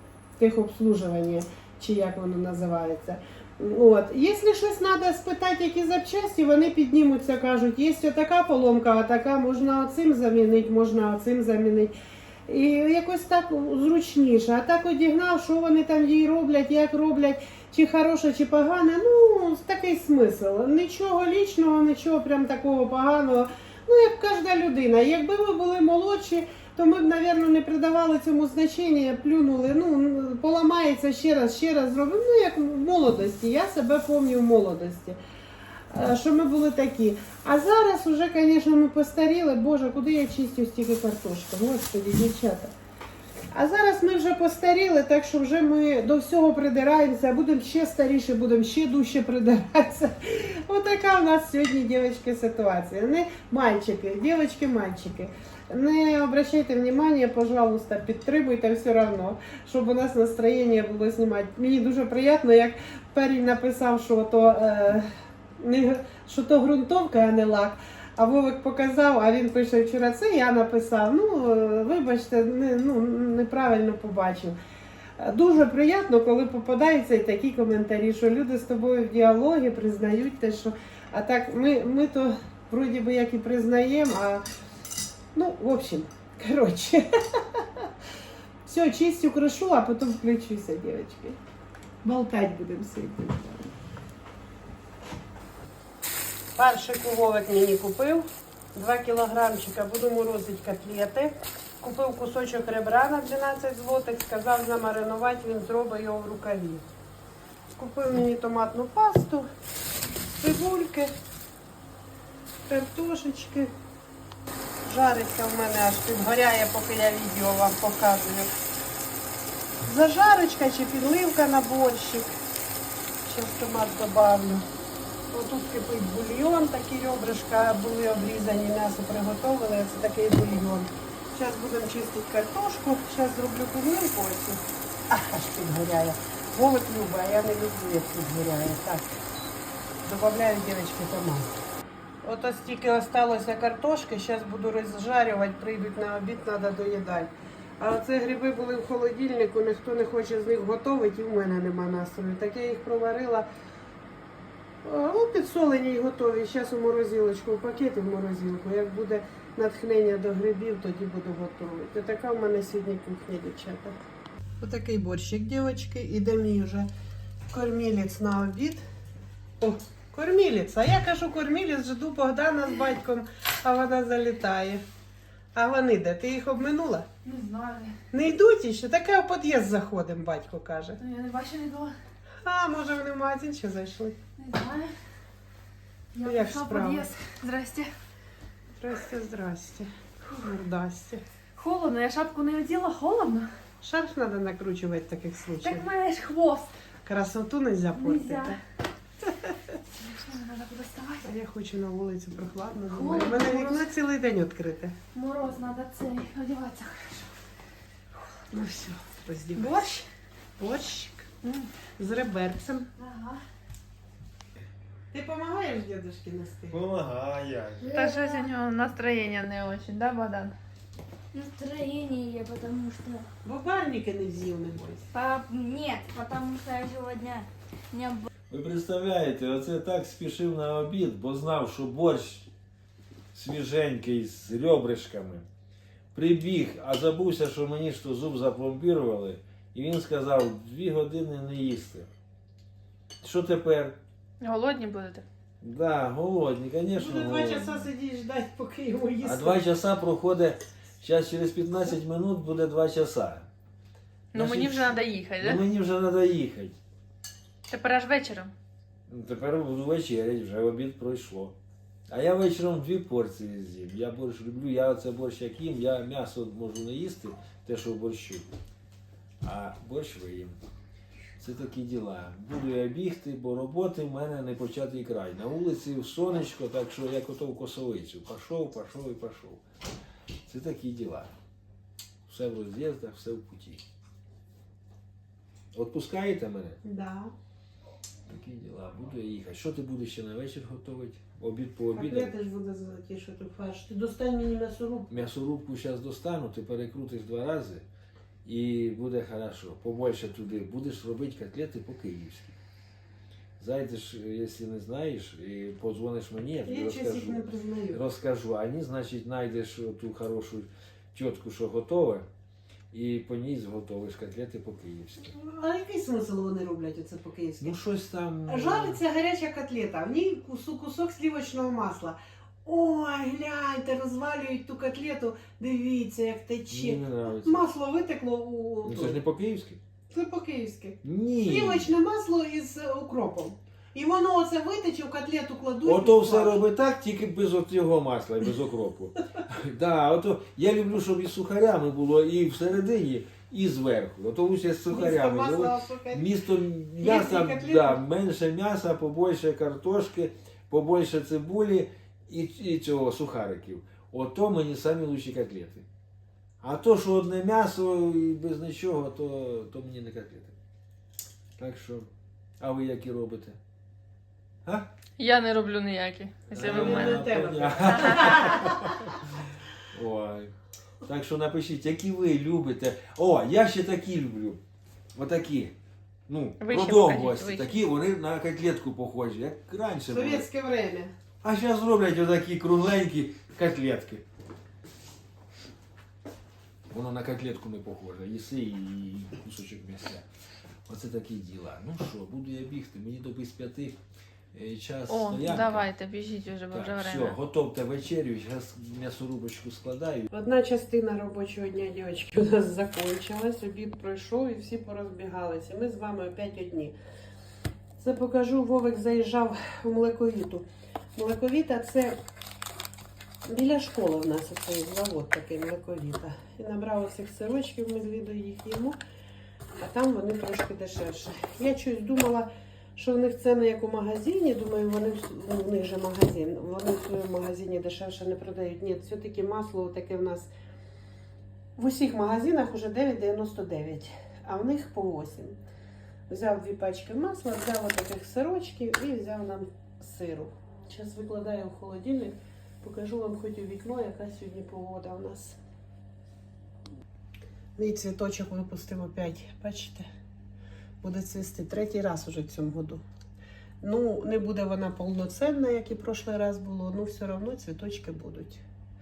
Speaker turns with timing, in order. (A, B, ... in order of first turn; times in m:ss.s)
0:00.4-0:11.9 A
0:12.5-0:35.2 A
0:35.9-0:42.7 A
0:43.5-1:05.0 A
1:05.6-1:14.6 A
1:15.2-1:24.4 A
1:25.3-1:27.9 A
1:28.6-1:31.4 A
1:32.0-1:33.7 A
1:36.6-1:46.8 A
1:47.8-1:49.5 A
1:50.4-1:51.1 A
1:52.7-1:53.7 A
1:54.8-1:58.5 A
1:59.8-2:02.3 A
2:03.2-2:04.6 A
2:05.3-2:19.2 A
2:20.0-2:21.5 A
2:22.2-2:33.5 A
2:34.8-2:44.0 A
2:44.6-2:46.9 A
2:47.5-2:48.8 A
2:49.6-2:54.8 A
2:55.5-2:57.1 A
2:57.2-2:57.9 B
2:58.1-3:01.0 A
3:01.0-3:01.9 B
3:02.4-3:04.2 A
3:04.4-3:04.9 B
3:06.1-3:07.9 B
3:06.2-3:07.1 A
3:08.8-3:11.2 A
3:11.6-3:13.5 B
3:13.8-3:15.9 A
3:15.6-3:16.7 B
3:17.0-3:18.6 A
3:18.0-3:18.6 B
3:20.0-3:21.3 B
3:21.2-3:24.9 A
3:22.9-3:23.8 B
3:25.1-3:27.3 B
3:28.5-3:29.9 A
3:29.6-3:30.0 B
3:30.6-3:31.3 A
3:31.4-3:31.7 B
3:32.0-3:32.9 A
3:33.0-3:33.4 B
3:35.1-3:36.8 A
3:36.7-3:38.0 C
3:37.9-3:38.5 D
3:37.9-3:40.5 B
3:41.3-3:43.2 D
3:43.4-3:45.1 A
3:45.1-3:48.3 D
3:48.5-3:52.5 C
3:53.3-3:55.4 C
3:56.1-4:02.1 C
4:03.2-4:04.0 C
4:04.4-4:05.2 B
4:05.6-4:07.9 C
4:06.9-4:09.6 A
4:09.2-4:13.5 C
4:14.3-4:15.6 B
4:14.3-4:16.8 C
4:17.7-4:18.5 B
4:19.1-4:21.6 C
4:22.1-4:28.5 C
4:29.4-4:30.6 C
4:31.4-4:39.6 C
4:40.5-4:41.3 C
4:42.3-4:43.8 C
4:45.7-4:46.8 C
4:46.8-4:47.3 A
4:48.3-4:52.3 C
4:51.9-4:55.2 A
4:55.1-4:57.8 C
4:58.4-5:02.6 C
5:03.6-5:12.2 C
5:06.6-5:08.0 A
5:12.9-5:15.3 C
5:15.2-5:17.8 A
5:17.6-5:19.0 C
5:18.5-5:29.2 A
5:26.7-5:27.6 C
5:28.8-5:29.8 C
5:30.1-5:36.6 A
5:31.0-5:31.9 C
5:35.8-5:55.8 C
5:44.9-5:46.3 A
5:47.0-5:48.0 A
5:56.6-6:00.5 C
6:01.6-6:02.1 C
6:02.6-6:03.6 C
6:05.2-6:07.2 B
6:06.5-6:10.5 C
6:06.5-6:08.8 A
6:07.9-6:08.3 B
6:11.0-6:14.6 C
6:15.2-6:15.7 C
6:16.3-6:20.5 C
6:16.6-6:17.7 B
6:20.1-6:21.1 A
6:21.4-6:24.2 C
6:26.9-6:30.2 C
6:30.9-6:34.0 C
6:34.5-6:35.9 C
6:35.1-6:37.4 B
6:36.7-6:40.3 C
6:40.3-6:46.9 A
6:48.0-6:52.2 A
6:53.4-6:59.0 A
6:59.8-7:10.5 A
7:11.8-7:15.6 A
7:16.3-7:25.6 A
7:27.8-7:30.0 A
7:31.0-7:33.0 A
7:33.8-7:38.6 A